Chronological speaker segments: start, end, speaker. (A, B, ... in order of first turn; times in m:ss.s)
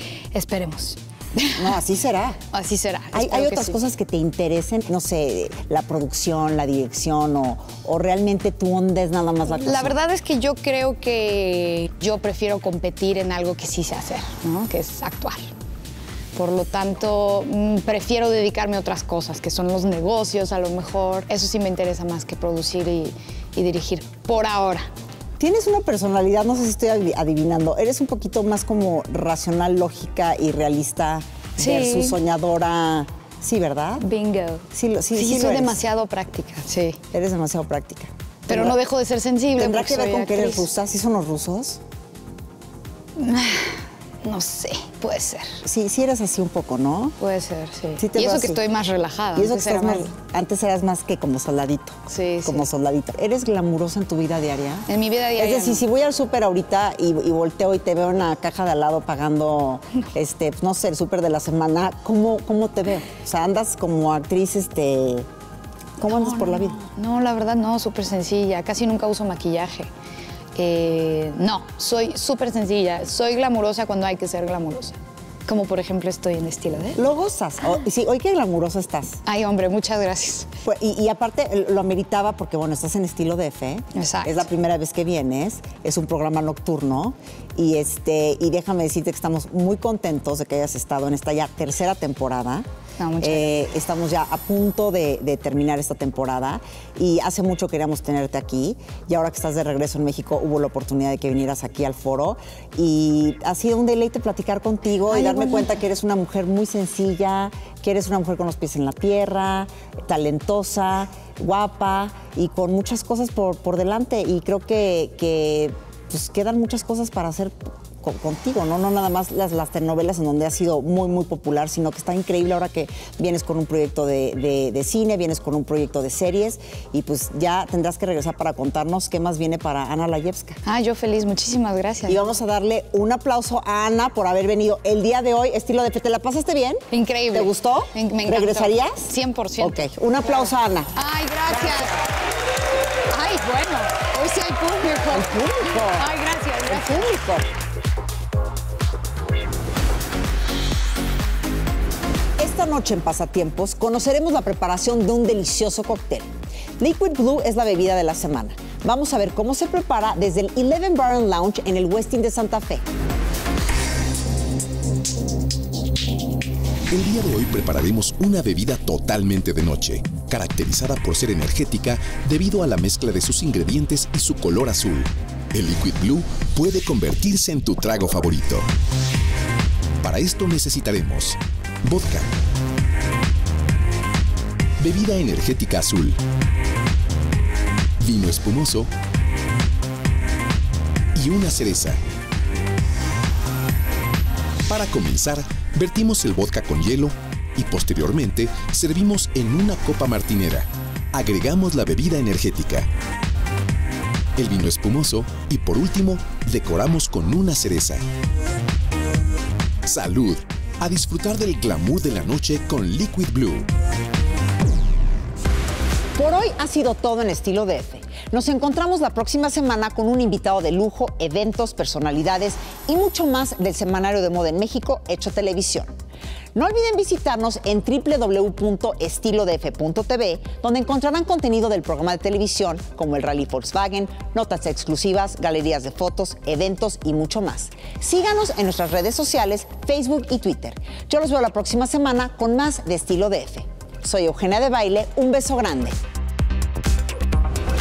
0:00.3-0:01.5 A
0:01.5-0:02.4 B
0:02.5-0:03.8 A
0:03.1-0:10.0 B
0:09.5-0:15.4 A
0:16.3-0:24.9 A
0:25.4-0:34.0 B
0:31.6-0:32.2 A
0:34.0-0:37.0 A
0:34.7-0:35.8 B
0:37.1-0:38.8 B
0:38.5-0:40.6 A
0:39.6-0:41.8 B
0:43.2-0:45.6 A
0:45.6-0:47.2 B
0:47.2-0:50.1 A
0:48.0-0:48.6 B
0:49.3-1:05.3 B
0:52.1-0:52.6 A
0:54.9-0:55.8 A
1:06.0-1:06.8 B
1:06.0-1:09.9 A
1:10.5-1:17.0 A
1:17.0-1:19.2 B
1:19.2-1:20.5 A
1:20.6-1:32.7 B
1:24.0-1:24.4 A
1:33.0-1:33.6 A
1:33.2-2:10.6 B
1:45.1-1:45.7 A
2:10.6-2:12.2 A
2:12.1-2:20.9 B
2:16.9-2:22.0 A
2:21.5-2:22.0 B
2:23.1-2:27.1 A
2:25.1-2:26.1 B
2:26.7-2:27.5 B
2:32.4-2:42.8 B
2:46.9-2:58.6 C
3:00.0-3:02.3 C
3:04.8-3:06.2 C
3:08.0-3:08.9 C
3:11.1-3:12.0 C
3:14.7-3:22.9 C
3:24.4-3:28.0 C
3:29.8-3:33.7 C
3:36.2-3:45.9 B
3:46.5-4:06.0 B